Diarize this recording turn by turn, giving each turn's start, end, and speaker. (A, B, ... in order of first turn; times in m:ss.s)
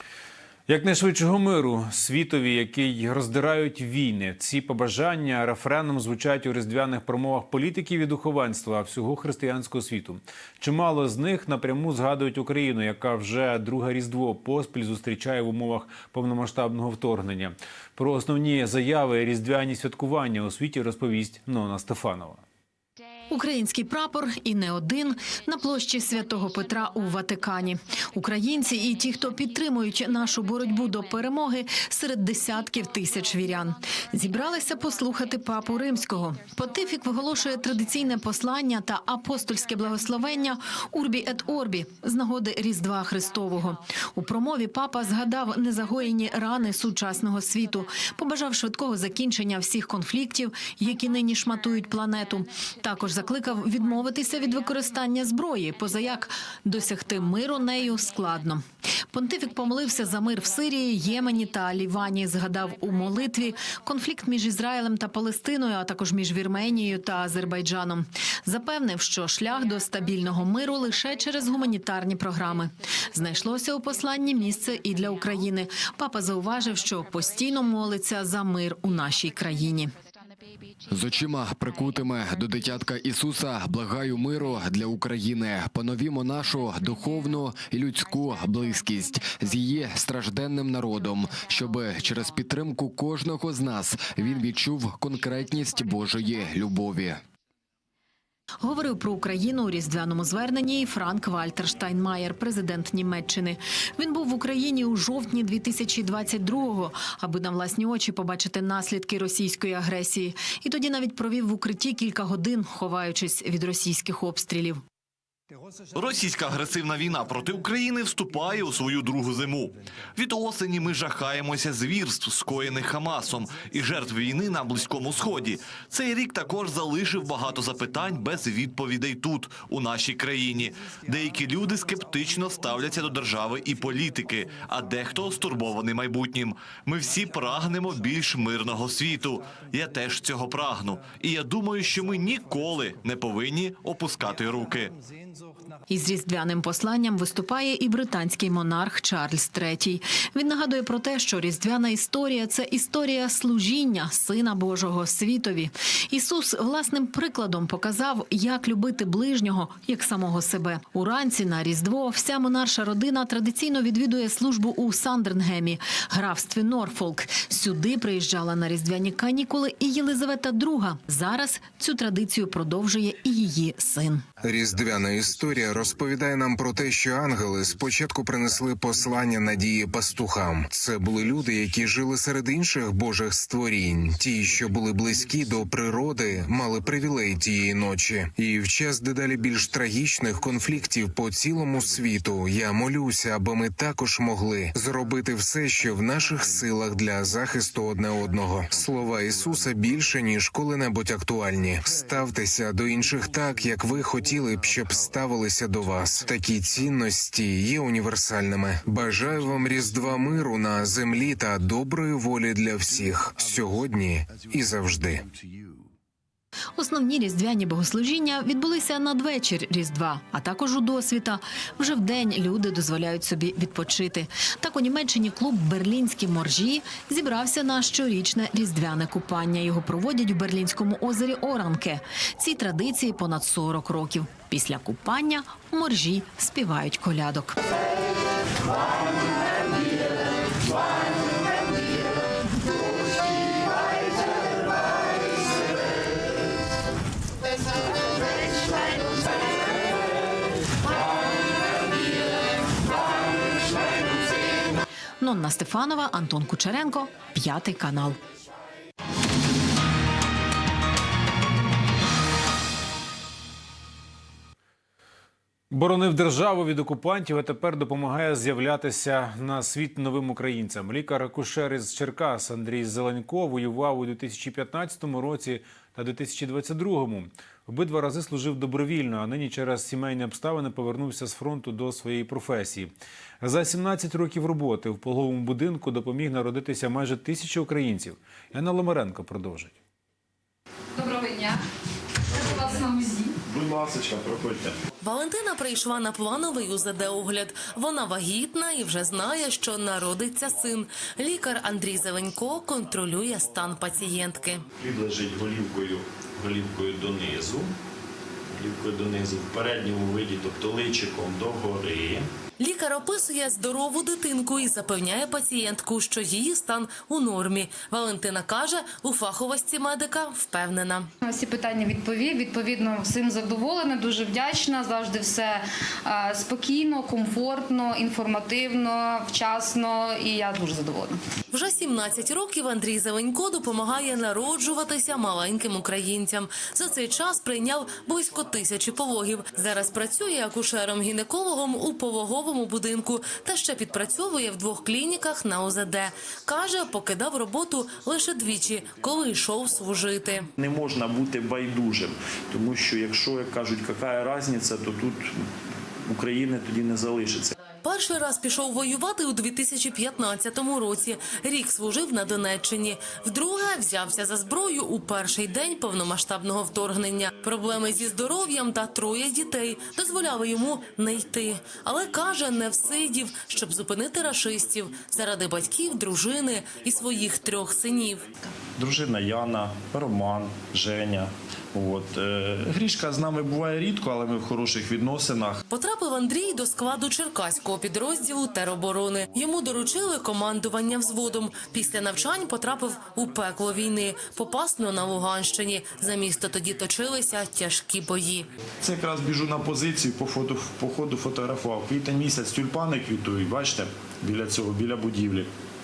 0:00.7-0:22.4 A
0:23.3-1:19.9 B
1:20.9-1:37.2 C
1:38.6-1:54.8 B
1:55.9-2:24.9 D
2:25.9-2:54.2 B
2:54.4-3:35.2 E
3:36.8-3:57.6 B
4:15.2-4:18.2 B
4:25.7-4:42.9 A
4:43.4-4:49.8 A
4:51.0-4:51.6 F
4:52.3-4:53.4 F
4:53.5-4:54.8 G
4:55.0-5:04.7 H
5:04.8-5:07.7 G
5:08.5-5:12.3 G
5:12.6-5:21.1 H
5:21.2-5:31.2 F
5:31.5-5:50.5 H
5:50.6-5:55.4 G
5:56.1-5:57.5 G
5:57.8-6:18.3 H
6:18.8-6:25.6 G
6:25.7-6:38.5 H
6:38.8-6:45.5 G